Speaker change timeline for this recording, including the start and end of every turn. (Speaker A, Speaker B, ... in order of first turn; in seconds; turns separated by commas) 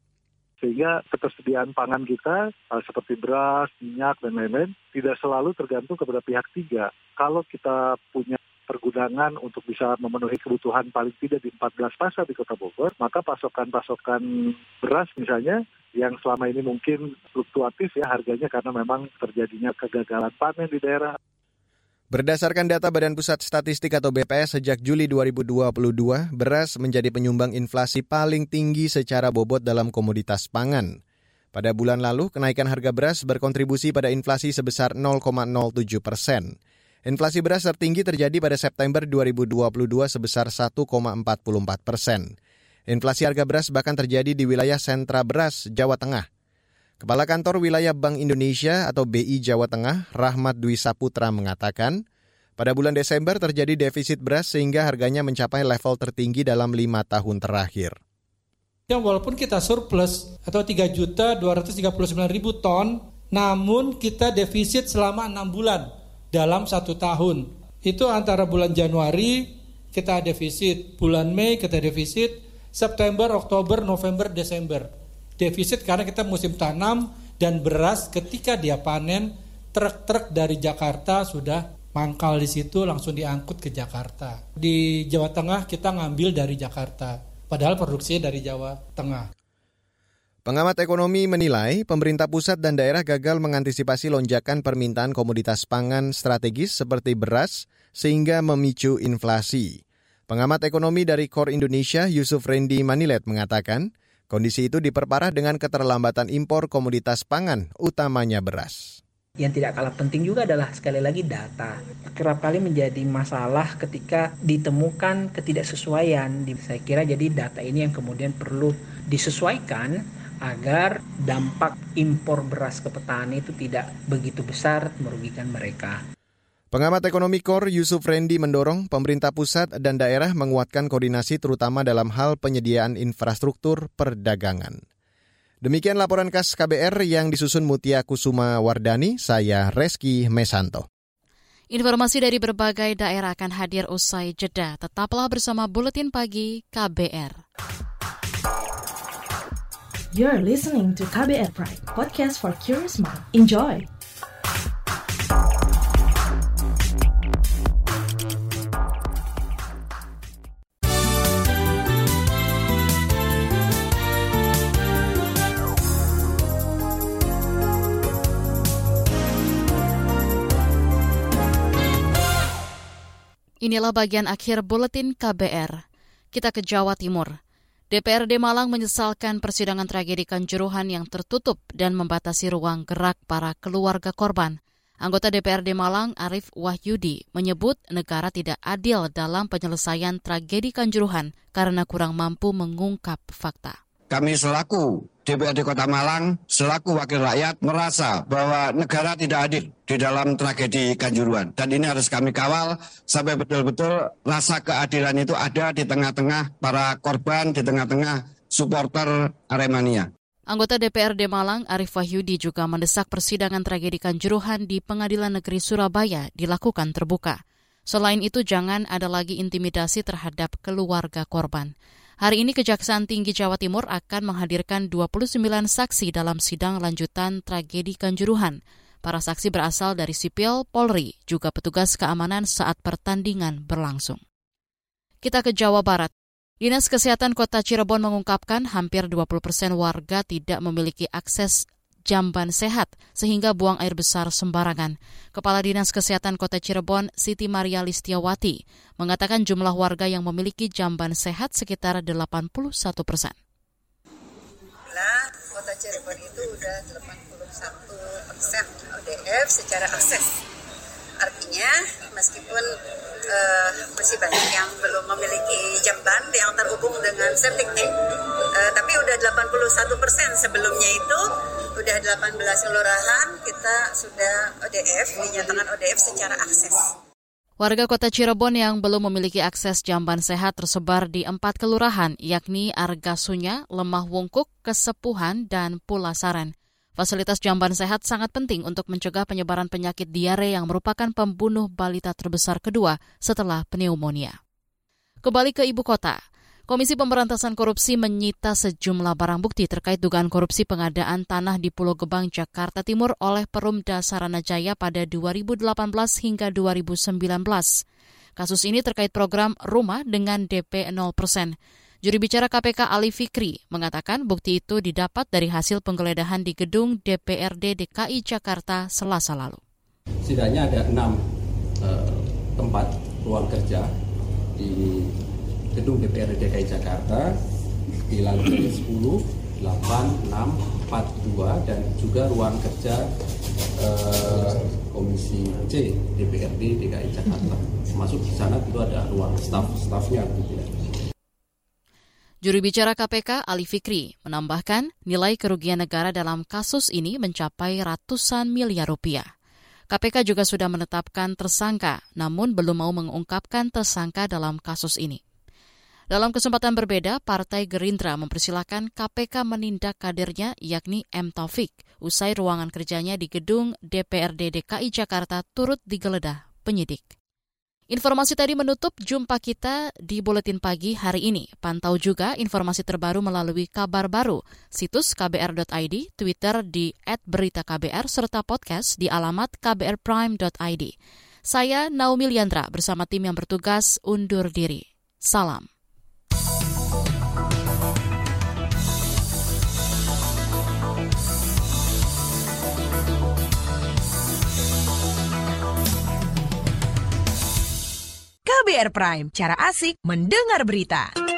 Speaker A: 0.6-14.2, Speaker A: 14.8-21.1, Speaker B: 22.1-31.0, Speaker B: 31.5-42.3, Speaker B: 42.9-46.3, Speaker B: 47.0-52.0, Speaker B: 52.6-58.0, Speaker C: 58.9-89.3, Speaker B: 90.5-109.0, Speaker D: 109.4-126.0, Speaker B: 126.7-134.8, Speaker B: 135.6-140.8, Speaker E: 141.7-147.4, Speaker F: 150.1-153.9, Speaker E: 173.6-175.8, Speaker E: 176.3-177.3, Speaker E: 177.9-193.8, Speaker G: 194.1-210.1, Speaker E: 210.5-234.2, Speaker E: 235.2-253.3, Speaker H: 254.9-260.3, Speaker H: 261.2-262.7, Speaker H: 263.2-267.9, Speaker H: 268.5-271.2, Speaker H: 271.8-276.9, Speaker E: 277.6-294.4, Speaker E: 295.2-307.8, Speaker E: 308.4-319.6, Speaker I: 320.2-321.2, Speaker I: 321.8-323.9, Speaker I: 324.6-325.1, Speaker I: 325.7-327.3, Speaker I: 328.1-333.1, Speaker I: 333.8-340.7, Speaker E: 342.4-349.3, Speaker E: 349.9-355.2, Speaker E: 356.1-367.1, Speaker E: 367.9-380.9, Speaker E: 381.5-385.7, Speaker J: 398.4-401.1